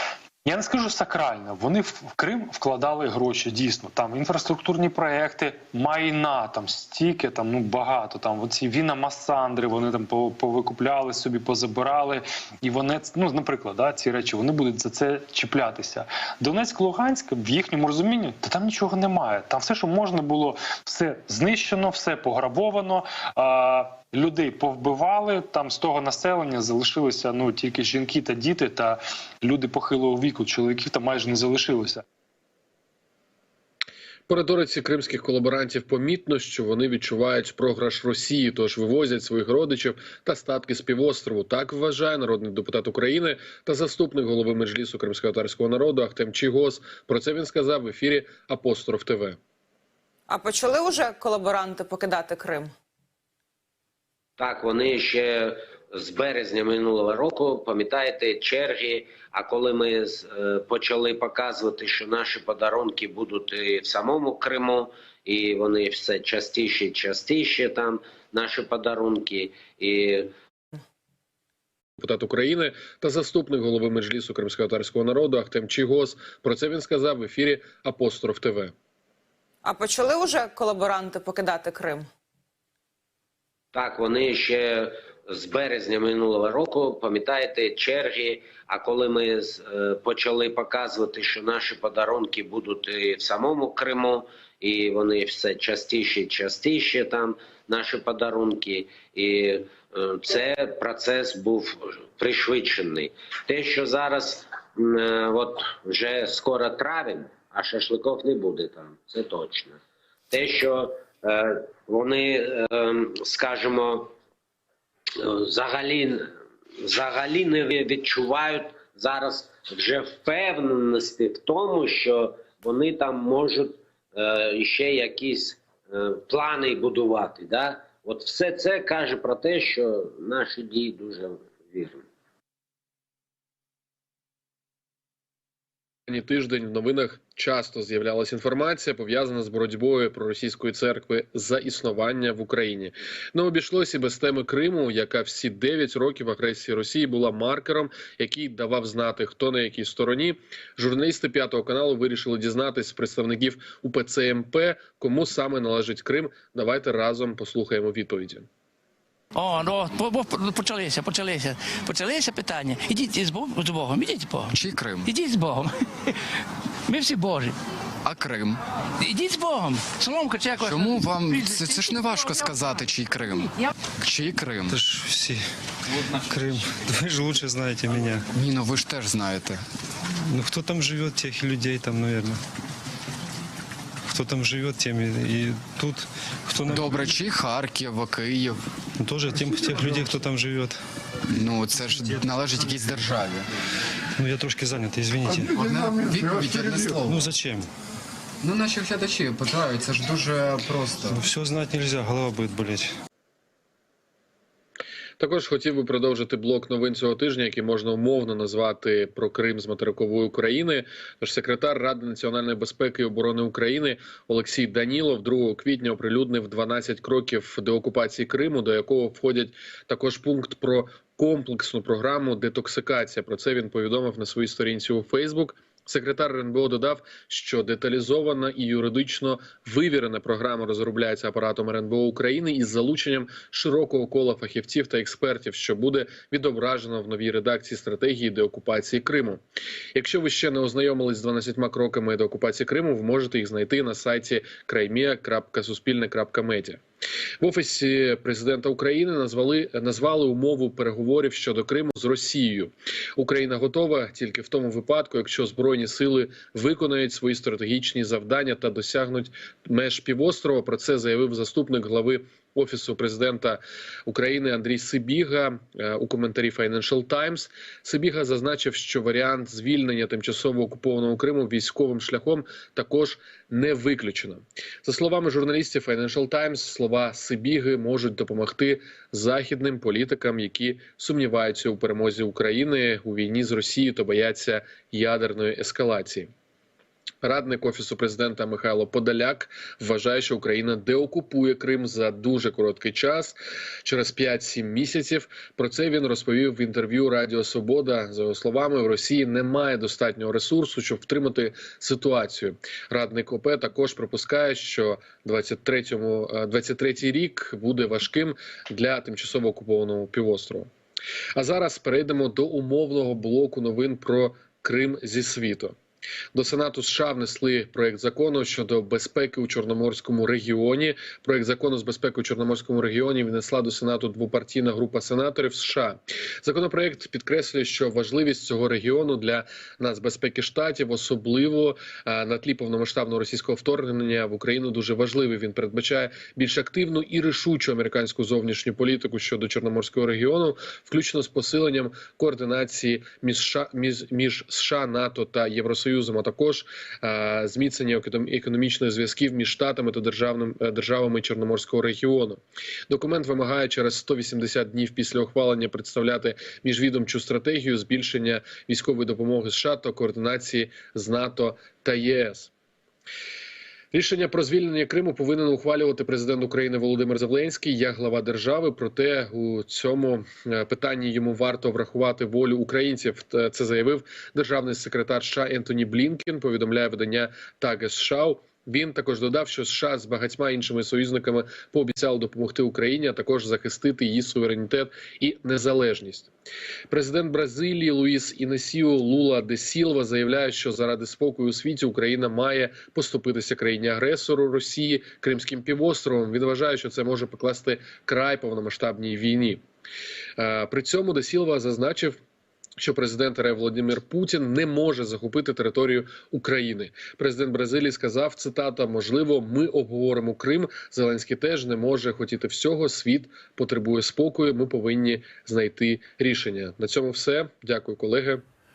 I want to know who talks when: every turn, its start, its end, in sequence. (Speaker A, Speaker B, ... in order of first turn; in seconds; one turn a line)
Speaker A: 0.4-32.0
Speaker B: 34.3-49.4
Speaker C: 50.3-52.7
Speaker D: 54.4-70.3
Speaker B: 72.0-78.7
Speaker C: 79.6-82.1
Speaker D: 83.7-109.8
Speaker D: 110.3-114.1
Speaker D: 115.2-132.0
Speaker B: 136.1-158.5
Speaker E: 159.3-164.5
Speaker F: 164.5-165.1
Speaker E: 165.1-165.7
Speaker E: 166.9-167.6
Speaker F: 168.0-168.6
Speaker E: 169.0-172.1
Speaker F: 170.6-174.8
Speaker G: 174.7-175.4
Speaker G: 176.1-178.2
Speaker F: 178.3-179.6
Speaker G: 180.2-182.4
Speaker G: 184.1-187.2
Speaker F: 186.6-188.6
Speaker G: 189.0-190.8
Speaker F: 191.3-193.5
Speaker G: 194.2-195.5
Speaker F: 195.4-197.2
Speaker G: 197.0-197.7
Speaker F: 198.4-201.2
Speaker G: 201.1-202.9
Speaker B: 205.2-239.4
Speaker B: 239.9-246.8
Speaker B: 247.4-286.3
Speaker B: 287.2-310.7
Speaker B: 311.4-315.7
Speaker B: 316.3-362.5
Speaker B: 363.9-386.3
Speaker B: 386.9-399.6
Speaker B: 400.4-402.2
Speaker B: 402.8-418.4